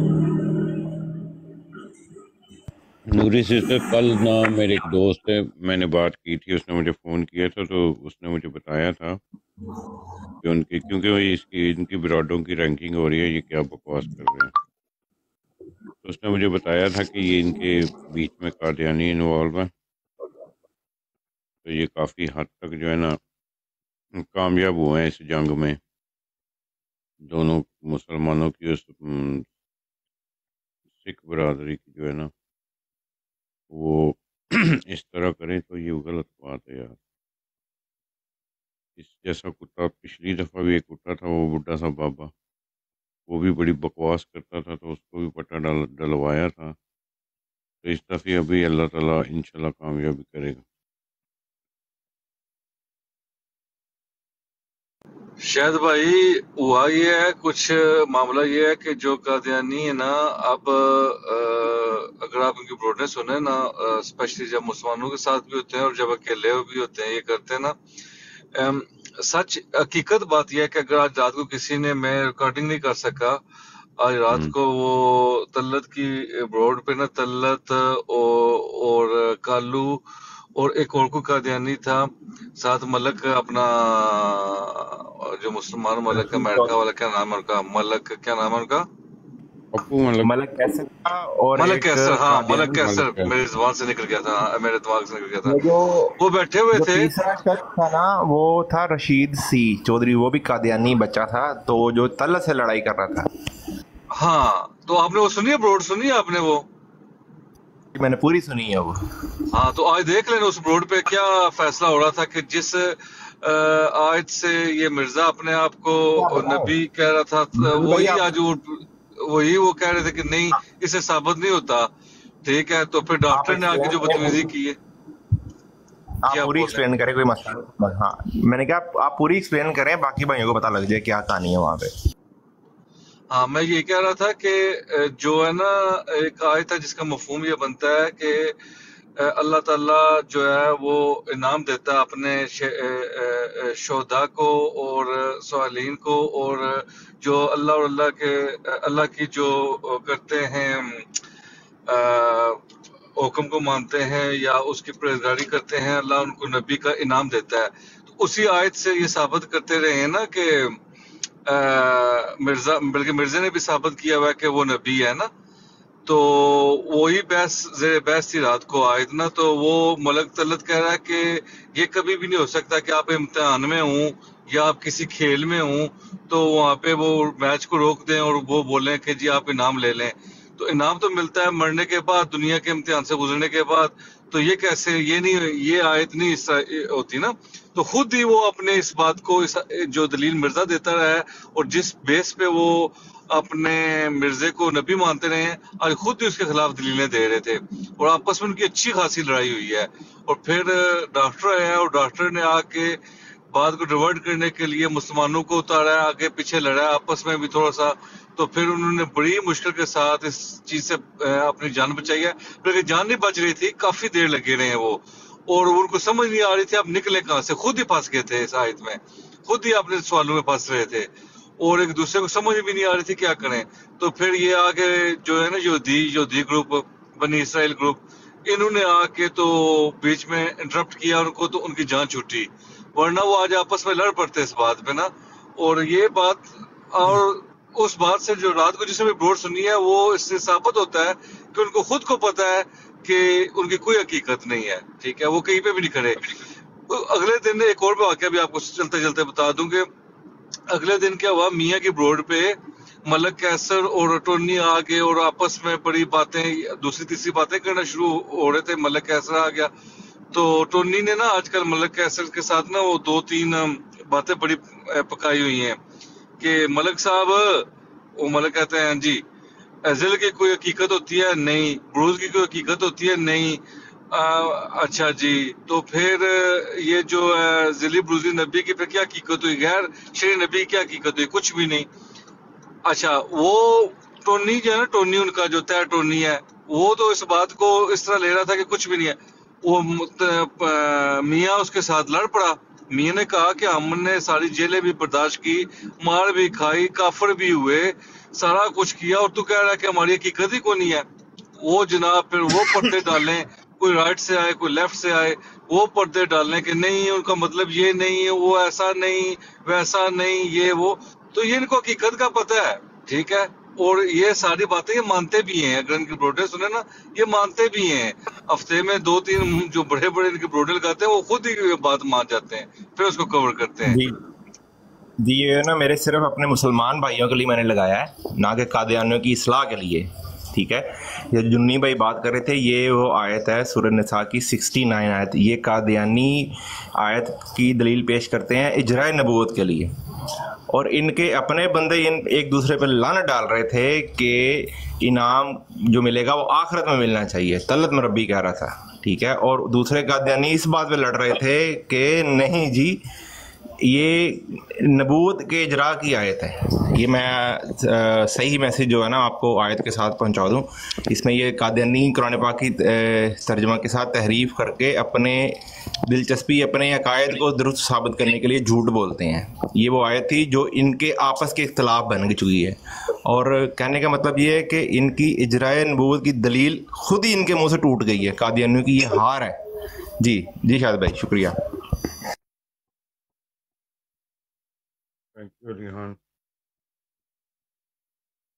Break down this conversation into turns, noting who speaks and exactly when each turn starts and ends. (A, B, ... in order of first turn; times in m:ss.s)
0:03.1-0:09.2 A
0:10.4-0:14.5 A
0:16.0-0:19.7 A
0:21.6-0:23.2 A
0:24.2-0:25.8 A
0:27.3-0:29.4 A
0:31.0-0:32.3 A
0:33.7-0:37.0 A
0:39.0-0:42.3 A
0:43.3-0:46.7 A
0:47.8-0:50.6 A
0:55.4-1:07.7 B
1:08.6-1:13.4 B
1:14.0-1:20.0 B
1:20.6-1:28.8 B
1:26.1-1:26.7 C
1:29.7-1:30.3 A
1:30.2-1:32.9 C
1:31.6-1:35.6 B
1:32.8-1:33.3 A
1:35.4-1:36.1 C
1:36.2-1:37.1 B
1:36.7-1:43.3 C
1:44.1-1:46.6 B
1:47.9-1:49.0 C
1:49.5-2:01.9 B
1:56.1-1:56.7 C
1:57.6-1:58.4 C
2:02.4-2:04.8 B
2:03.3-2:04.5 C
2:06.2-2:11.9 C
2:06.3-2:06.8 B
2:13.3-2:18.6 B
2:19.2-2:31.1 B
2:31.9-2:32.6 B
2:33.2-2:40.8 B
2:41.4-2:45.3 B
2:46.0-3:23.0 B
3:23.5-4:06.4 B
4:06.9-4:09.9 B
4:10.7-4:19.7 B
4:20.3-4:25.8 B
4:26.4-4:29.2 B
4:29.8-4:41.9 B
4:42.8-5:01.0 B
5:01.6-5:24.0 B
5:23.9-5:24.2 C
5:25.2-5:39.9 C
5:40.7-5:53.0 C
5:53.8-6:19.5 C
6:20.2-6:21.5 C
6:25.4-6:26.2 A